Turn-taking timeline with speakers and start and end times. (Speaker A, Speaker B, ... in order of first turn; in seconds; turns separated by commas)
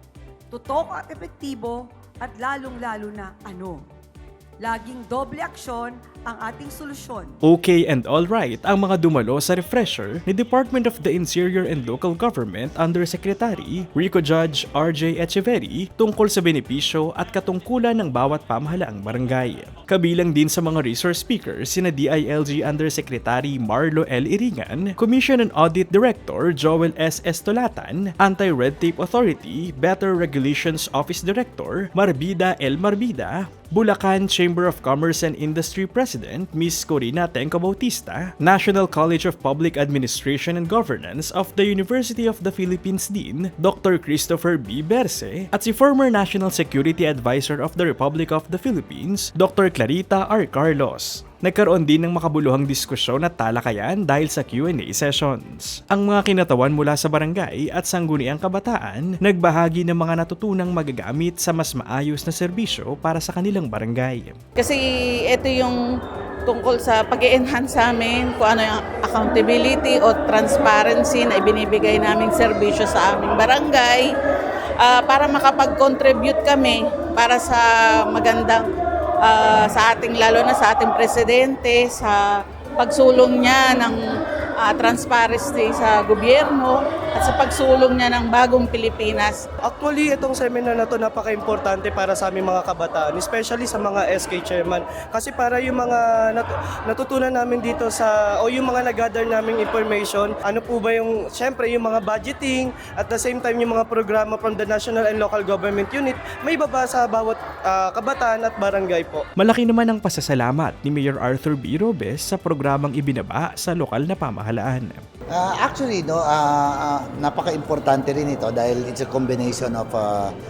Speaker A: 0.5-3.9, Speaker A: 4.6-7.3, Speaker B: 7.4-64.4, Speaker C: 64.6-65.8, Speaker C: 66.5-74.1, Speaker C: 74.8-78.7, Speaker C: 79.2-84.0, Speaker C: 84.6-89.4, Speaker D: 89.6-109.3, Speaker B: 109.4-115.0, Speaker E: 115.3-120.3